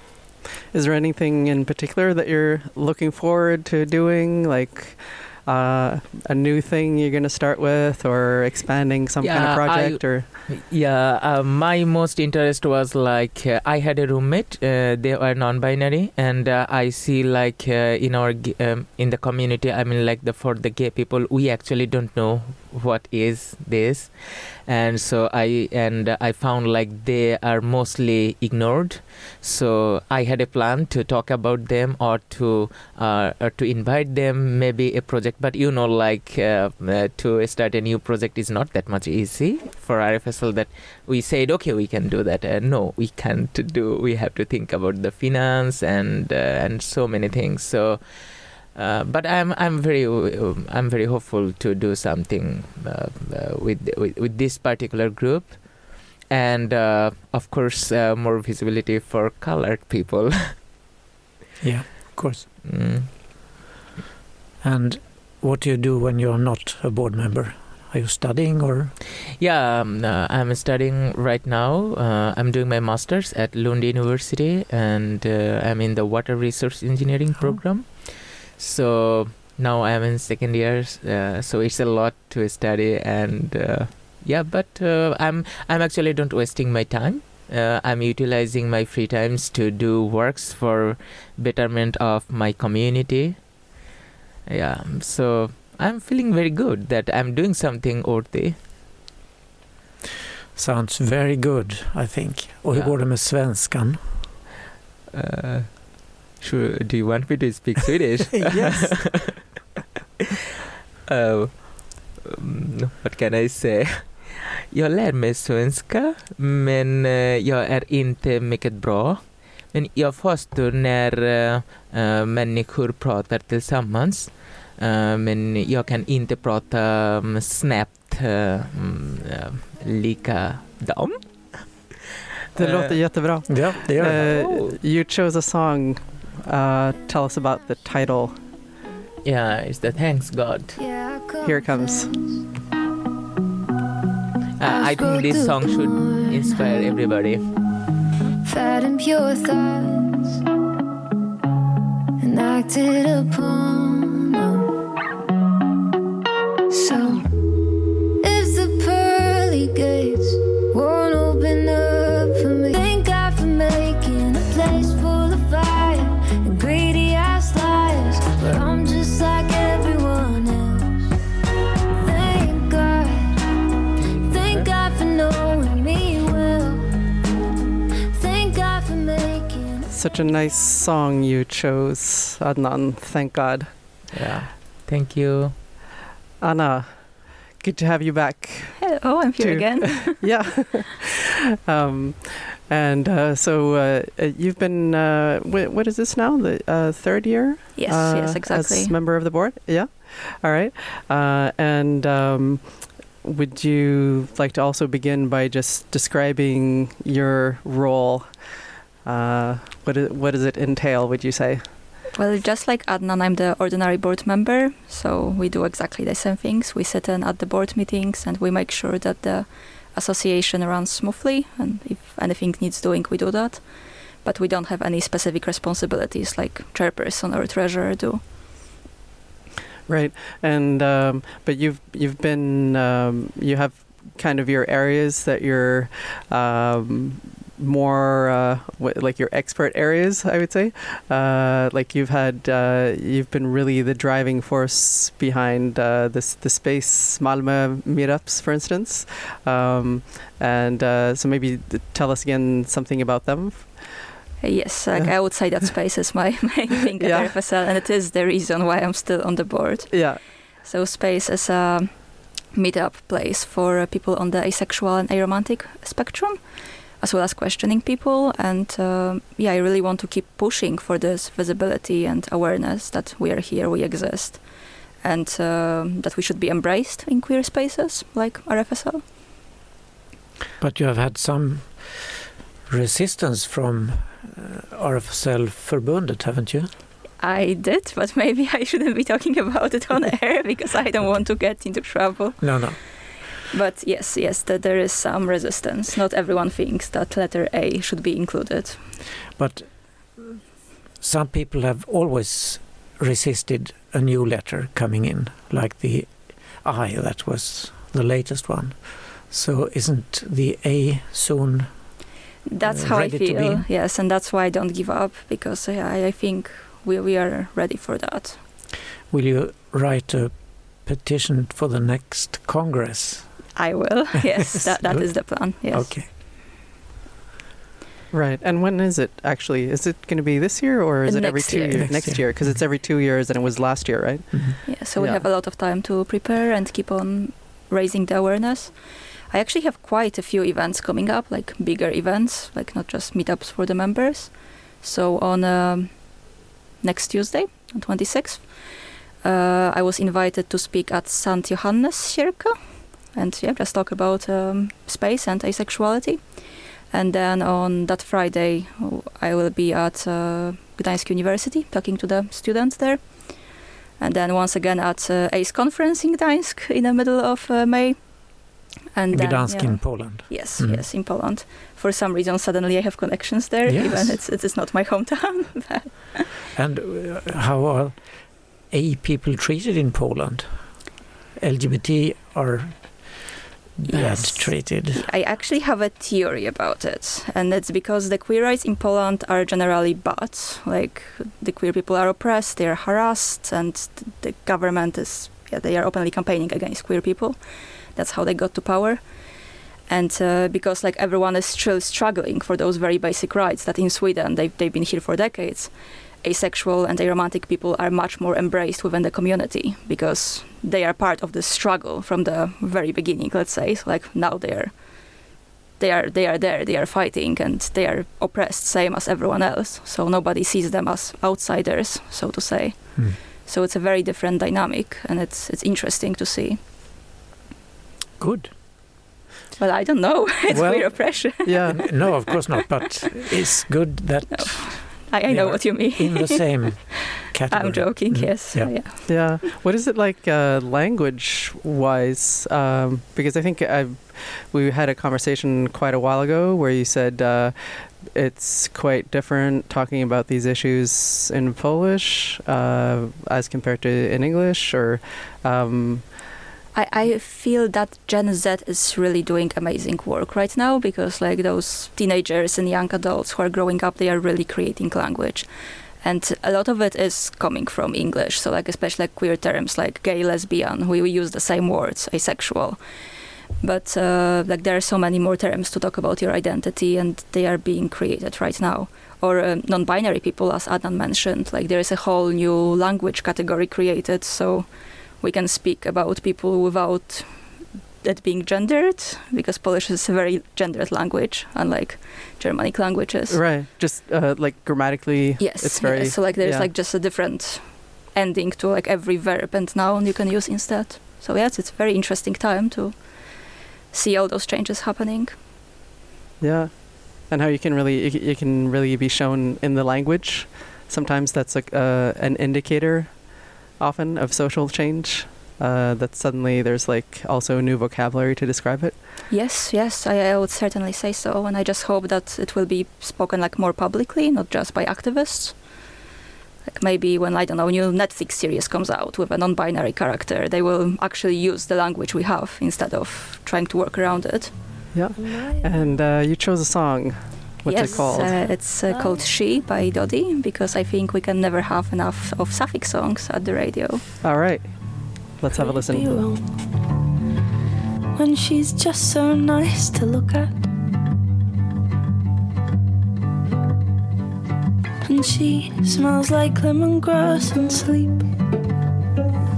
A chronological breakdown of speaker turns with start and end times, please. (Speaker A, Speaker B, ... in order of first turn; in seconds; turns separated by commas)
Speaker A: 0.7-10.3, Speaker B: 9.2-60.7, Speaker C: 61.6-62.5, Speaker B: 62.6-63.5, Speaker C: 64.6-68.9, Speaker B: 69.4-93.7, Speaker B: 94.5-98.6, Speaker C: 100.5-104.1, Speaker B: 105.1-109.3, Speaker C: 108.3-109.4, Speaker B: 111.1-131.9, Speaker A: 132.5-138.5, Speaker B: 132.6-134.8, Speaker C: 133.5-134.2, Speaker B: 139.2-140.8, Speaker D: 140.8-142.4, Speaker A: 141.4-142.1, Speaker B: 144.6-147.4, Speaker D: 144.6-147.0, Speaker D: 148.4-150.4, Speaker D: 152.2-154.7, Speaker D: 156.7-157.4, Speaker D: 158.2-171.0, Speaker B: 168.4-168.7, Speaker D: 172.0-173.4, Speaker B: 174.0-174.7, Speaker D: 174.1-176.8, Speaker D: 178.1-179.9, Speaker A: 179.9-183.7, Speaker B: 184.1-185.5, Speaker A: 186.4-211.7, Speaker E: 188.8-190.2, Speaker E: 197.8-198.9, Speaker E: 212.2-228.2, Speaker A: 229.9-254.1, Speaker E: 254.4-279.0, Speaker A: 254.9-255.7, Speaker A: 257.0-257.4, Speaker A: 259.9-260.2, Speaker C: 280.6-286.7, Speaker E: 287.2-292.7, Speaker C: 292.4-292.8, Speaker E: 293.5-298.9, Speaker C: 299.4-300.4, Speaker C: 301.0-311.7, Speaker E: 312.4-318.4, Speaker C: 312.6-313.6, Speaker C: 319.1-323.3, Speaker E: 323.6-326.0, Speaker C: 324.6-326.1, Speaker A: 328.1-335.3, Speaker E: 331.0-331.8, Speaker C: 331.9-332.6, Speaker C: 334.3-334.6, Speaker E: 334.6-376.2, Speaker C: 369.1-370.8, Speaker C: 373.6-374.2, Speaker C: 376.5-377.9, Speaker C: 378.7-380.5, Speaker C: 381.4-383.2, Speaker C: 383.8-385.0, Speaker E: 383.9-415.2, Speaker E: 415.8-426.6, Speaker C: 428.2-428.5, Speaker E: 429.6-432.9, Speaker C: 430.5-438.8, Speaker A: 431.4-431.8, Speaker E: 434.3-437.0, Speaker E: 437.5-439.4, Speaker A: 439.1-456.1, Speaker E: 456.7-472.8, Speaker E: 473.6-493.4, Speaker A: 493.3-496.7, Speaker E: 495.4-505.4, Speaker A: 506.4-519.0, Speaker E: 519.3-525.8, Speaker E: 526.7-534.6, Speaker A: 534.9-538.4, Speaker E: 537.7-544.0, Speaker F: 537.9-539.1, Speaker A: 544.2-546.1, Speaker F: 545.5-546.5, Speaker F: 548.1-550.5, Speaker F: 555.0-558.3